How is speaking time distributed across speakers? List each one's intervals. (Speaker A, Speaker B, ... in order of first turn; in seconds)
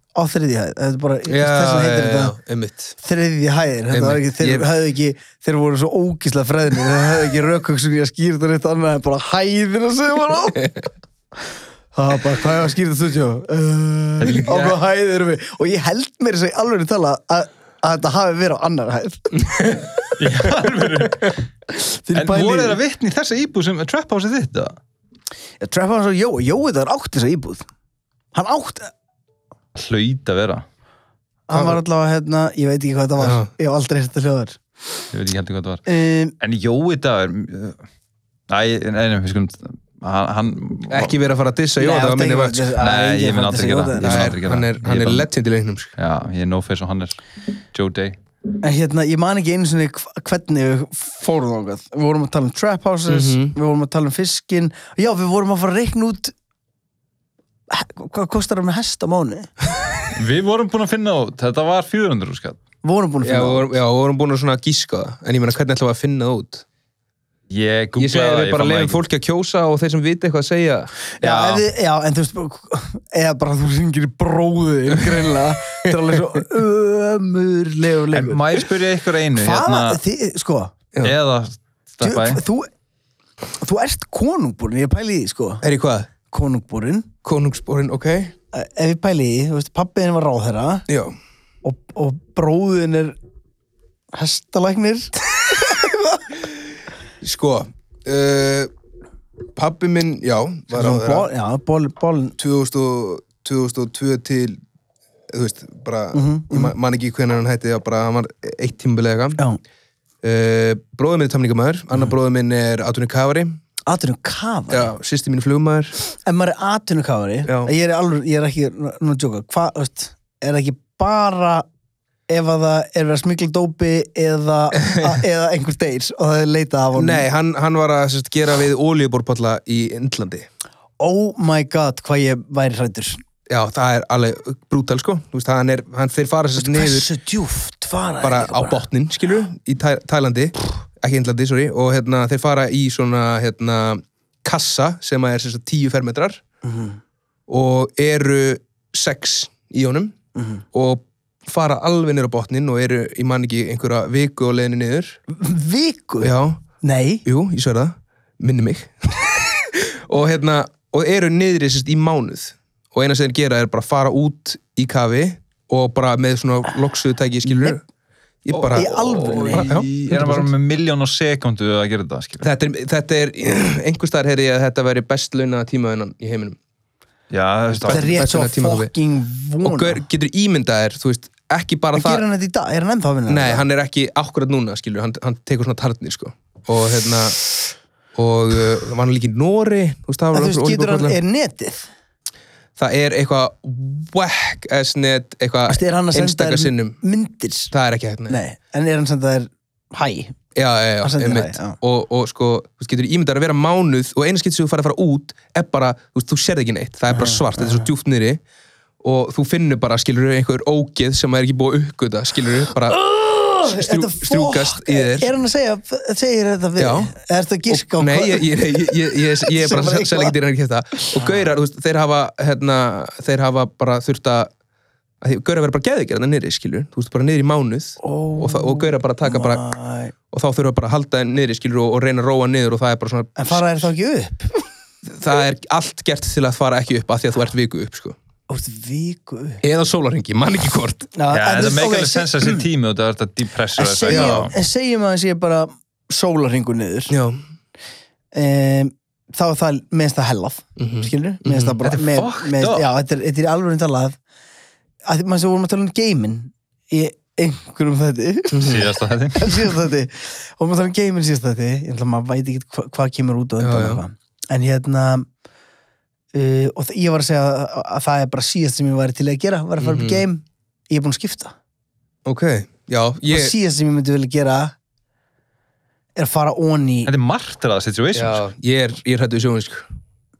Speaker A: 0.1-2.4, 3.0-10.7, 11.9-19.8, 21.8-22.8, 25.6-27.6, 28.3-28.9, 31.5-34.6, 35.9-36.3, 41.8-44.4, 48.6-56.3, 57.7-59.5, 62.8-63.7, 71.2-78.4, 79.3-80.7, 82.0-82.7, 83.6-85.6, 86.3-87.1, 88.5-90.9, 91.6-93.2, 94.1-96.2, 100.7-102.3, 106.1-106.7, 113.8-114.9, 116.2-121.7, 122.3-127.2, 131.0-133.2, 136.6-138.8, 146.6-147.0, 150.3-150.6, 155.3-156.3, 156.8-157.2, 168.7-169.8, 177.9-180.0, 181.9-183.6, 190.3-191.9, 195.7-197.7, 198.3-200.3, 201.0-201.8, 207.1-207.9, 212.9-218.6, 219.5-220.3, 221.1-221.5, 228.0-230.1, 233.4-234.6, 238.5-239.6, 241.2-242.6, 243.8-247.1, 248.3-254.2, 255.1-258.8, 259.3-265.3, 266.3-271.5, 273.2-274.7, 276.1-277.1
Speaker B: 1.3-2.9, 3.9-4.7, 31.5-31.8, 33.2-33.5, 40.9-42.7, 44.0-45.9, 53.1-53.5, 63.2-66.6, 68.0-70.9, 85.6-86.1, 87.2-88.3, 90.9-91.1, 97.2-98.7, 99.5-101.3, 102.4-104.6, 105.3-109.4, 110.2-113.6, 114.7-115.9, 117.5-117.7, 124.8-125.1, 126.9-130.4, 133.5-137.1, 138.2-146.4, 147.5-150.2, 150.7-155.2, 156.2-156.6, 157.2-167.8, 168.4-170.4, 172.4-176.6, 177.8-178.9, 179.6-182.2, 183.3-187.5, 188.1-191.2, 192.8-197.0, 197.7-198.4, 200.5-208.4, 209.0-215.3, 216.8-217.1, 217.7-224.5, 225.2-229.6, 230.3-233.9, 235.1-238.2, 239.6-241.1, 244.1-244.4, 247.1-247.4, 250.8-251.7, 258.5-258.8, 263.6-264.0, 269.8-270.2, 272.2-273.5, 278.1-279.9
Speaker C: 14.2-14.8, 20.2-21.3, 22.1-24.8, 29.7-30.6, 35.1-35.8, 36.4-37.8, 38.5-41.2, 42.8-45.3, 46.0-47.2, 47.7-48.2, 60.1-62.6, 67.5-69.0, 71.2-71.6, 78.1-80.0, 81.0-82.4, 169.4-172.5, 177.3-178.2, 241.3-244.5, 251.8-252.8, 258.6-259.8, 277.1-278.4